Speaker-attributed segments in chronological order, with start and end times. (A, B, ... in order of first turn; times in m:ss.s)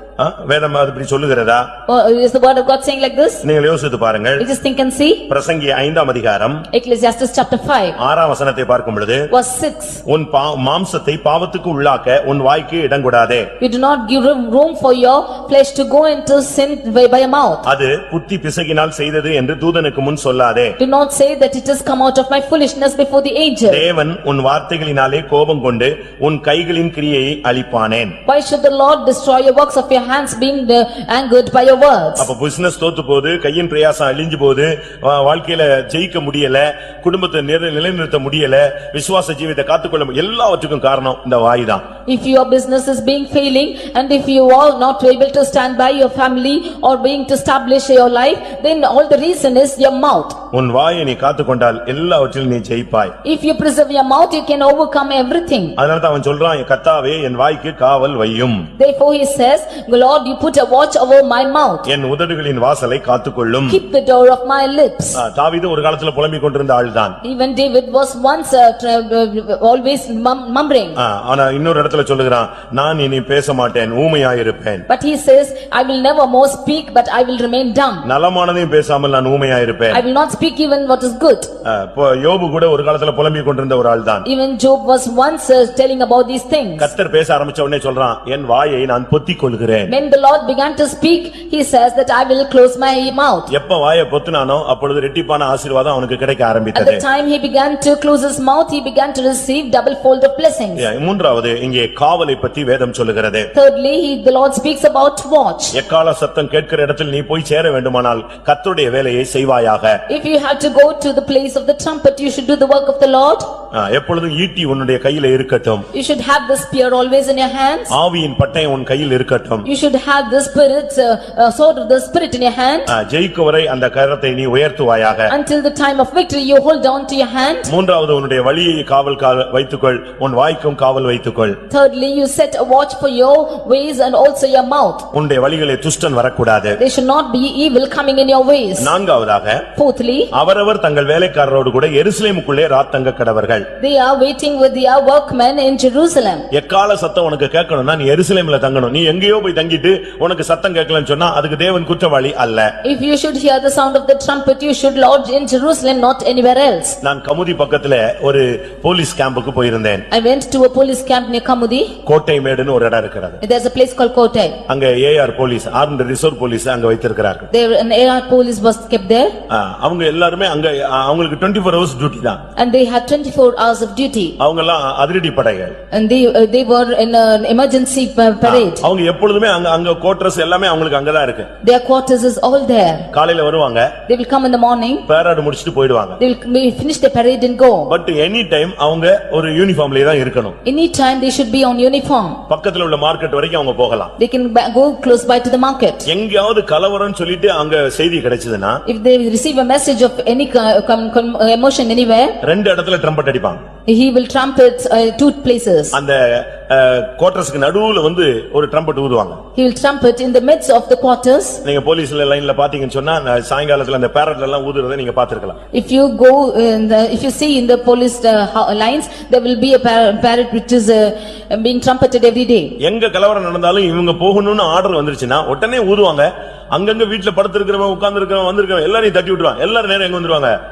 0:00.2-0:01.7 A
0:01.9-0:03.4 B
0:03.4-0:04.4 A
0:04.4-0:05.2 B
0:05.3-0:06.7 A
0:06.7-0:08.0 B
0:08.0-0:09.3 A
0:09.3-0:10.0 B
0:10.1-0:13.5 A
0:13.6-0:17.6 B
0:17.6-0:20.8 A
0:20.8-0:23.8 B
0:23.7-0:28.2 A
0:28.3-0:32.3 B
0:32.2-0:41.8 A
0:42.1-0:50.4 B
0:50.5-0:53.2 A
0:53.2-0:55.8 B
0:55.8-0:58.7 A
0:58.8-1:01.9 B
1:01.9-1:03.8 A
1:03.7-1:05.2 B
1:05.2-1:07.2 A
1:07.2-1:11.0 B
1:11.0-1:14.9 A
1:14.9-1:18.0 B
1:18.0-1:20.0 A
1:19.9-1:21.5 B
1:21.6-1:24.3 A
1:24.2-1:26.9 B
1:26.8-1:30.0 A
1:29.9-1:33.5 B
1:33.5-1:37.0 A
1:36.7-1:40.9 B
1:40.8-1:43.5 A
1:43.5-1:45.8 B
1:45.7-1:50.0 A
1:50.1-1:53.5 B
1:53.7-1:55.9 A
1:55.9-1:58.0 B
1:57.9-1:59.7 A
1:59.6-2:02.9 B
2:02.9-2:05.3 A
2:05.3-2:07.7 B
2:07.7-2:11.6 A
2:11.7-2:15.1 B
2:15.1-2:16.8 A
2:16.8-2:18.9 B
2:18.8-2:19.6 A
2:19.8-2:20.3 B
2:20.3-2:23.7 A
2:23.8-2:26.4 B
2:26.5-2:32.7 A
2:32.8-2:37.0 B
2:37.0-2:40.1 A
2:40.1-2:41.9 B
2:42.0-2:43.4 A
2:43.4-2:44.6 B
2:44.7-2:47.5 A
2:47.5-2:49.3 B
2:49.5-2:52.4 A
2:52.6-2:54.4 B
2:54.4-2:55.8 A
2:55.9-2:58.9 B
2:58.4-3:01.5 A
3:01.6-3:03.1 B
3:03.1-3:03.9 A
3:04.1-3:05.0 B
3:05.1-3:06.2 A
3:06.2-3:07.9 B
3:07.9-3:10.6 A
3:10.6-3:12.4 B
3:12.5-3:14.1 A
3:14.2-3:16.1 B
3:16.0-3:18.8 A
3:18.9-3:22.4 B
3:22.4-3:23.6 A
3:23.9-3:26.0 B
3:25.9-3:29.4 A
3:29.6-3:31.6 B
3:31.6-3:35.6 A
3:35.7-3:42.8 B
3:42.8-3:50.5 A